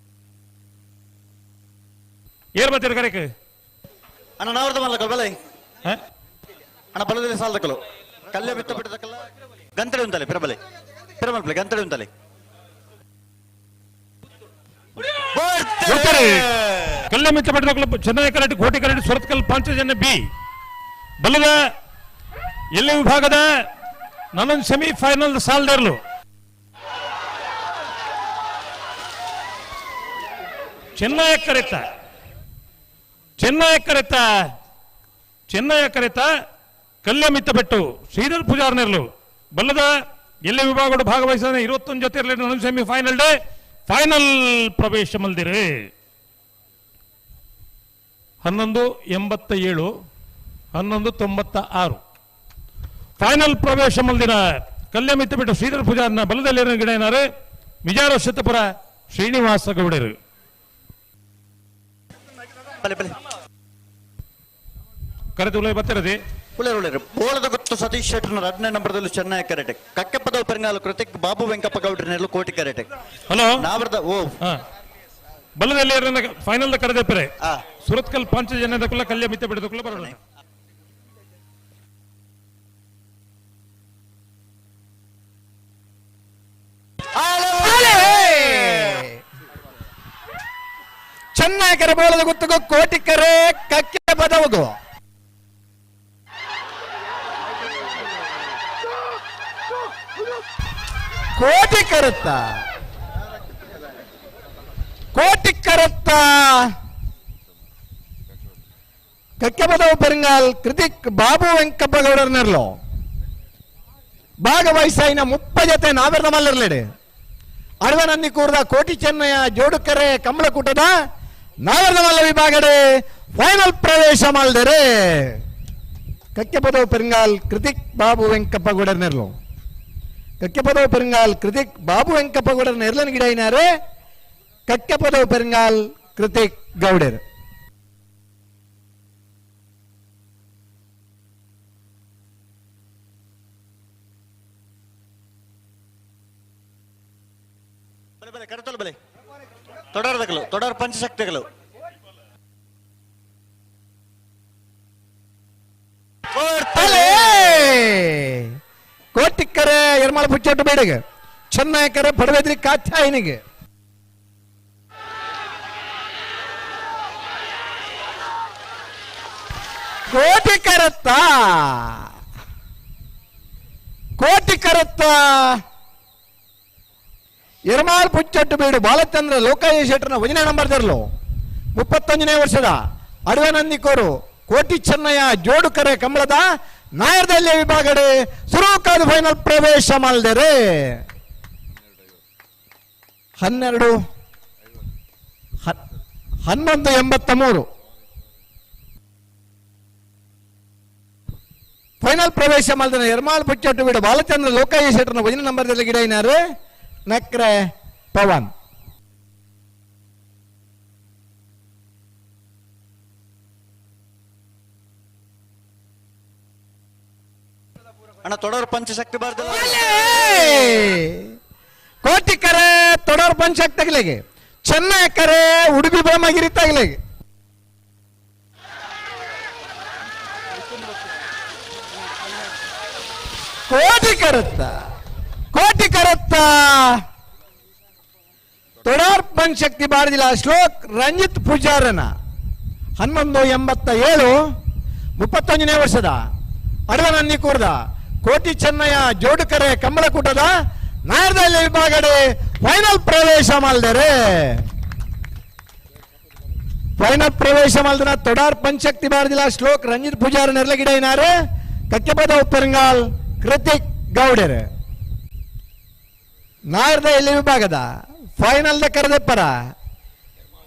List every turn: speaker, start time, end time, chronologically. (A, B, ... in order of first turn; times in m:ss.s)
0:02.6-0:03.3 A
0:04.4-0:05.4 B
0:06.9-0:10.6 B
0:11.2-0:12.1 B
0:15.3-0:17.0 B
0:15.8-0:16.5 A
0:17.1-0:20.3 A
0:21.2-0:21.6 A
0:22.8-0:23.5 A
0:24.3-0:26.0 A
0:31.0-0:31.9 A
0:33.4-0:34.5 A
0:35.5-0:36.3 A
0:37.0-0:39.9 A
0:40.5-0:43.4 A
0:43.9-0:45.7 A
0:48.4-0:49.9 A
0:50.7-0:52.0 A
0:53.2-0:54.4 A
0:54.9-0:57.2 A
0:57.8-1:00.2 A
1:02.8-1:03.2 B
1:05.4-1:06.2 A
1:06.6-1:12.9 B
1:13.3-1:13.6 A
1:13.6-1:14.4 B
1:15.6-1:20.2 A
1:27.2-1:28.7 B
1:27.6-1:29.2 C
1:31.4-1:34.8 C
1:41.4-1:42.6 C
1:45.1-1:46.7 C
1:49.4-1:52.8 C
1:54.4-1:56.8 C
1:57.8-2:01.0 C
2:01.6-2:02.8 C
2:03.4-2:05.4 C
2:06.4-2:09.3 C
2:10.4-2:13.7 C
2:14.7-2:17.2 C
2:28.2-2:29.0 B
2:29.9-2:31.5 B
2:36.4-2:37.5 B
2:36.7-2:38.5 C
2:39.2-2:41.0 C
2:41.5-2:43.4 C
2:50.1-2:52.1 C
2:54.2-2:55.6 C
2:57.7-3:01.0 C
3:01.8-3:11.0 C
3:13.4-3:14.0 C
3:16.5-3:17.7 C
3:22.0-3:26.4 C
3:27.1-3:28.5 C
3:38.2-3:40.5 B
3:39.5-3:41.3 C
3:42.0-3:47.0 C
3:53.7-3:54.7 C
3:55.5-3:57.0 C
3:58.8-4:02.1 C
4:03.0-4:04.4 C
4:05.2-4:06.2 C
4:06.9-4:10.5 C
4:11.1-4:14.6 C
4:17.0-4:21.3 C
4:21.9-4:24.7 C
4:26.7-4:27.9 C
4:28.4-4:29.6 C